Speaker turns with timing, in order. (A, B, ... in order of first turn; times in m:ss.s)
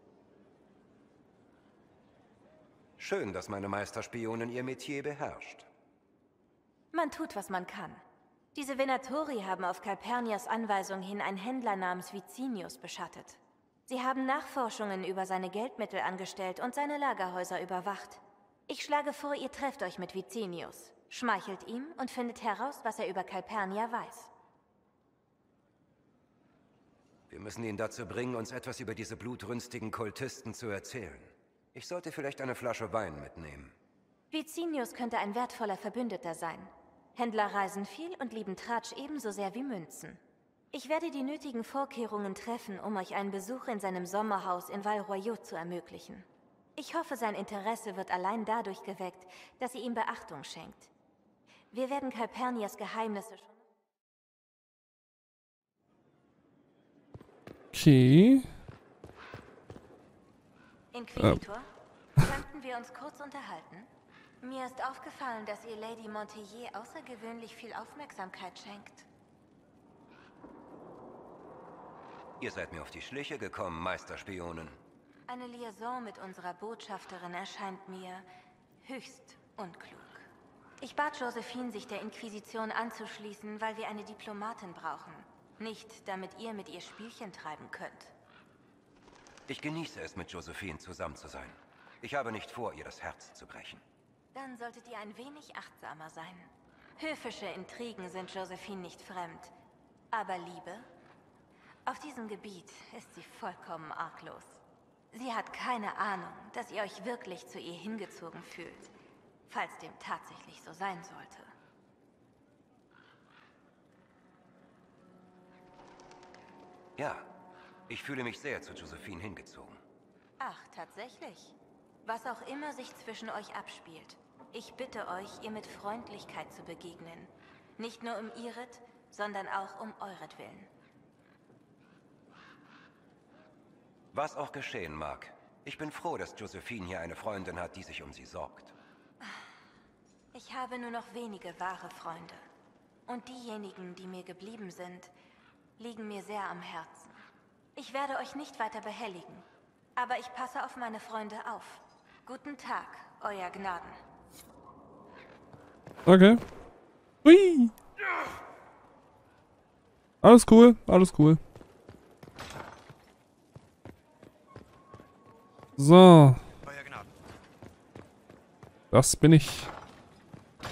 0:03.0-0:05.7 A
0:06.9-0:08.0 B
0:08.6-0:24.3 B
0:27.3-0:33.8 A
0:34.3-0:40.2 B
0:40.7-0:50.9 B
0:51.7-0:53.6 B
0:57.7-0:58.5 C
1:00.9-1:01.7 B
1:02.2-1:03.9 B
1:04.4-1:09.1 B
1:12.4-1:14.8 A
1:15.3-1:18.3 B
1:18.8-1:20.3 B
1:20.8-1:28.1 B
1:29.5-1:33.8 A
1:34.3-1:39.5 B
1:40.1-1:40.9 B
1:41.9-1:48.9 B
1:49.5-1:51.5 B
1:57.0-1:57.3 A
1:57.9-1:59.8 A
2:00.4-2:10.7 B
2:14.1-2:18.8 A
2:20.3-2:22.4 B
2:23.1-2:25.1 B
2:25.8-2:27.2 B
2:27.8-2:29.4 B
2:30.0-2:34.0 B
2:36.1-2:36.4 C
2:37.2-2:37.7 C
2:40.2-2:41.4 C
2:45.8-2:46.5 C
2:48.9-2:49.7 C